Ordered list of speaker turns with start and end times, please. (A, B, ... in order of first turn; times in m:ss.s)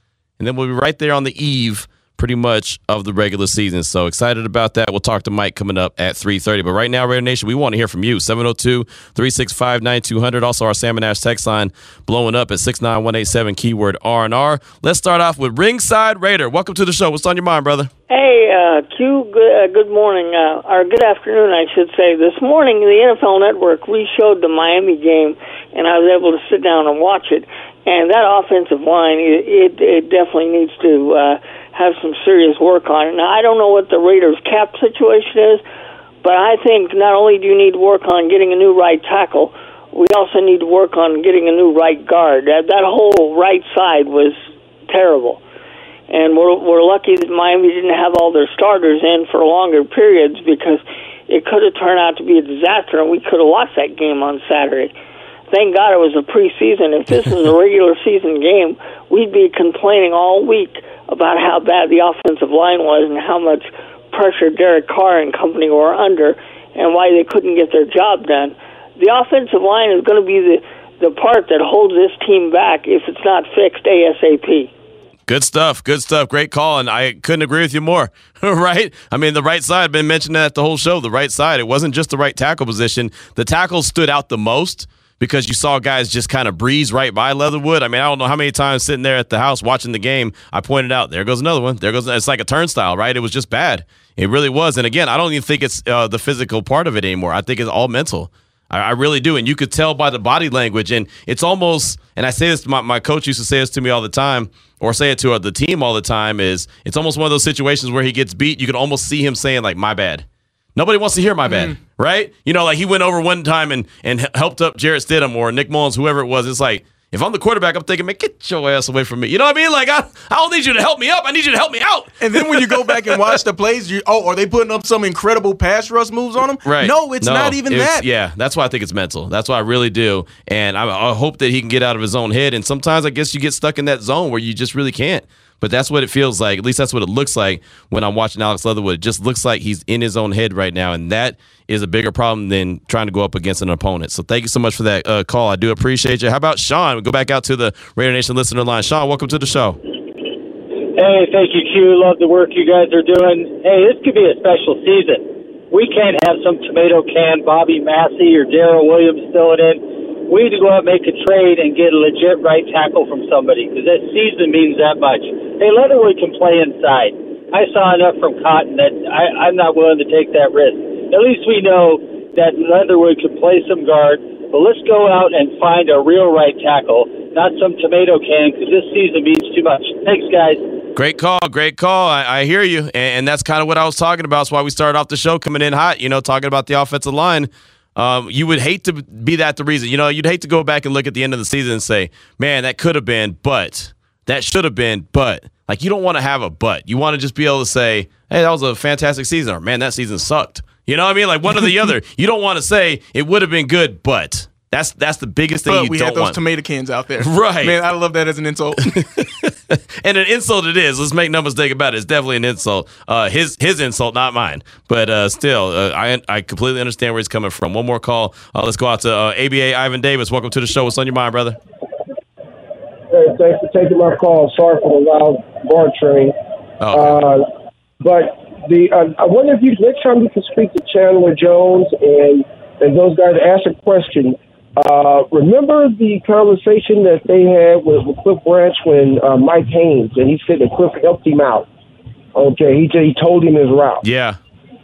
0:00.4-0:17.9 A
0:18.1-0:35.6 B
0:36.2-0:44.4 B
0:44.9-0:45.4 B
0:46.1-0:54.9 B
0:55.5-1:14.7 B
1:15.3-2:03.4 A
1:51.5-1:51.8 C
2:02.2-2:08.0 C
2:06.6-2:29.8 A
2:31.0-3:00.6 D
3:01.0-3:26.4 A
3:25.7-3:29.0 C
3:27.2-3:27.8 A
3:29.0-3:41.6 A
3:43.1-3:46.3 E
3:46.8-3:47.2 A
3:46.9-3:47.5 E
3:48.0-4:01.7 E
4:02.4-4:04.0 E
4:04.0-4:04.4 A